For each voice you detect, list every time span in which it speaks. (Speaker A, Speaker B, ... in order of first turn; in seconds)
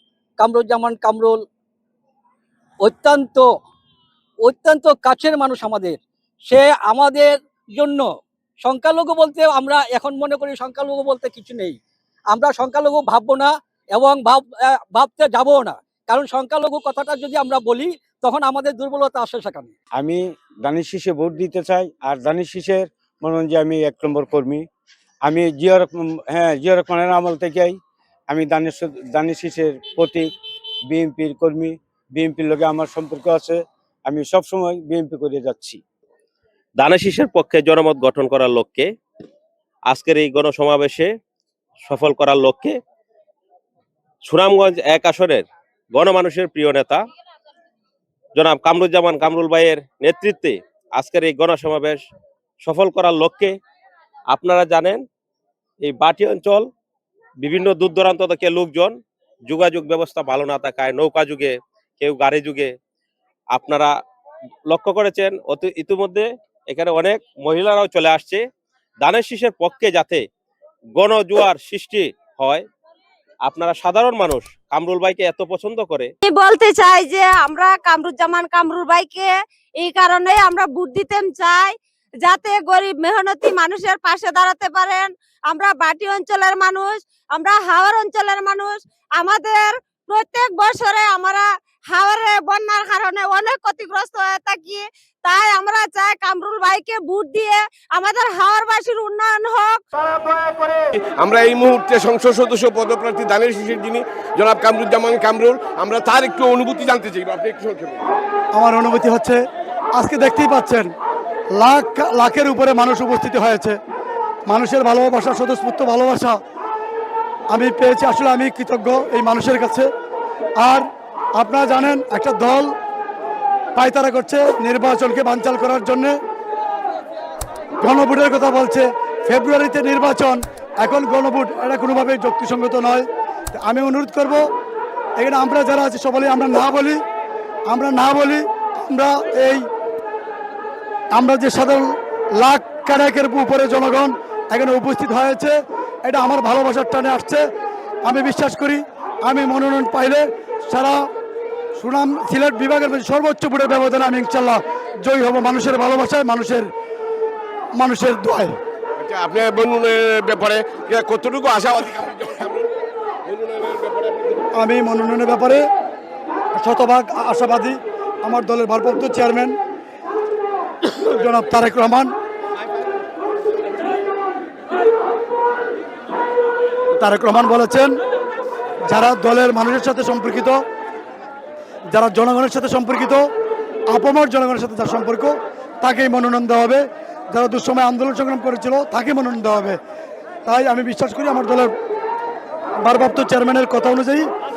Speaker A: 0.4-1.4, 2.8-3.5, 4.5-8.1, 8.6-11.8, 12.3-19.7
Speaker B: 20.0-24.6, 25.3-27.7, 28.5-30.3, 30.9-35.8
Speaker C: 36.8-38.9, 39.9-41.1, 41.8-42.8, 44.2-45.5, 46.0-47.0, 48.4-52.0, 52.6-53.5, 54.3-55.0, 55.8-56.7, 57.4-59.0, 59.5-62.7, 63.5-63.9, 64.7-68.4, 69.0-70.2, 71.0-72.6, 73.5-76.1
Speaker D: 76.2-99.8
Speaker E: 101.2-108.0, 159.0-162.7, 163.2-164.4
Speaker F: 108.5-109.4, 110.0-110.9, 111.6-113.8, 114.5-116.3, 117.5-119.9, 121.4-122.7, 123.8-126.2, 127.8-134.4, 135.2-137.0, 137.7-139.6, 141.2-141.9, 142.4-147.4, 148.0-151.0, 151.8-156.7, 157.8-158.5, 164.5-165.6, 166.6-169.6, 171.0-172.1, 177.0-178.0, 178.9-180.6, 181.9-183.2, 183.9-189.8, 190.5-191.7, 192.8-194.2